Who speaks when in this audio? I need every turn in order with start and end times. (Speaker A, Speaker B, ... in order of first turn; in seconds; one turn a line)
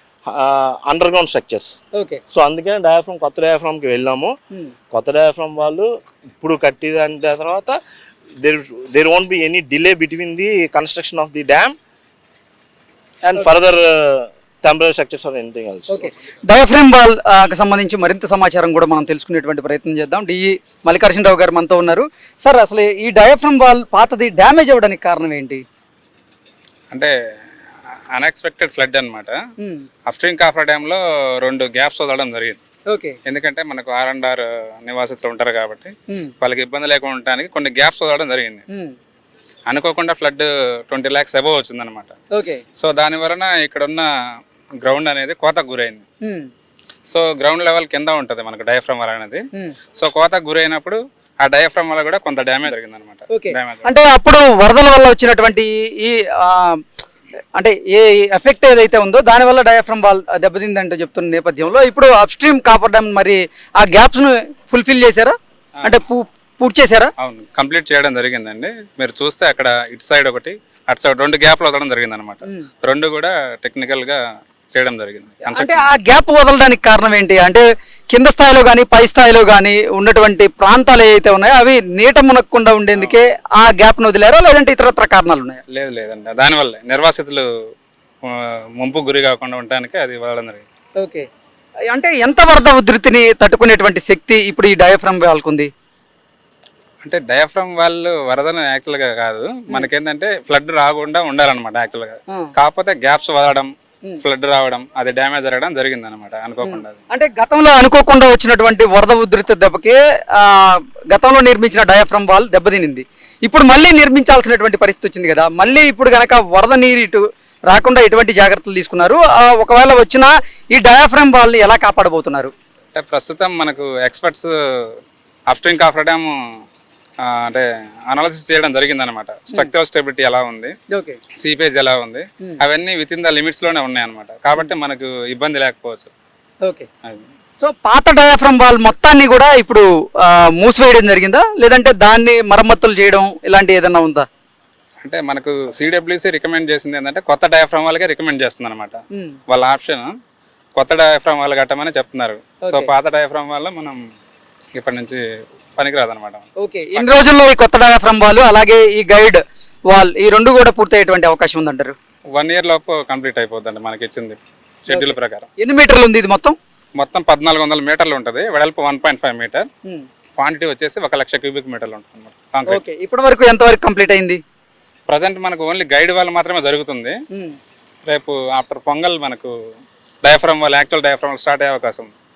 Speaker A: 0.3-1.8
Speaker B: 1.9-2.2
Speaker A: 2.3-4.3
Speaker A: 4.9-5.9
Speaker A: 6.4-7.8
Speaker A: 8.4-11.8
Speaker A: 13.2-16.1
Speaker B: 15.9-25.6
Speaker C: 28.1-29.4
Speaker B: 29.6-29.9
Speaker C: 30.1-32.6
Speaker B: 32.9-33.2
Speaker C: 33.2-38.6
Speaker C: 39.7-42.1
Speaker B: 42.3-42.6
Speaker C: 42.8-44.1
Speaker C: 44.8-46.0
Speaker B: 46.2-46.5
Speaker C: 47.1-49.4
Speaker C: 50.0-53.9
Speaker B: 53.3-56.8
Speaker B: 57.6-67.1
Speaker C: 67.2-74.2
Speaker C: 74.7-75.9
Speaker B: 75.5-85.6
Speaker C: 85.7-87.5
Speaker C: 88.2-90.6
Speaker B: 91.0-91.3
Speaker B: 91.9-95.7
Speaker C: 97.0-107.0
Speaker B: 106.6-122.5
Speaker C: 122.9-124.5
Speaker C: 125.5-126.3
Speaker C: 127.2-130.7
Speaker B: 130.9-131.2
Speaker C: 131.4-136.1
Speaker B: 137.6-144.2
Speaker C: 145.0-150.1
Speaker C: 150.8-154.0
Speaker B: 152.6-152.9
Speaker C: 154.7-155.2
Speaker C: 155.8-157.2
Speaker B: 156.6-161.9
Speaker C: 162.3-165.5
Speaker B: 164.9-166.6
Speaker C: 167.0-169.7
Speaker C: 170.3-172.8
Speaker B: 172.7-174.4
Speaker C: 175.1-177.1
Speaker C: 178.1-179.5
Speaker C: 180.2-182.1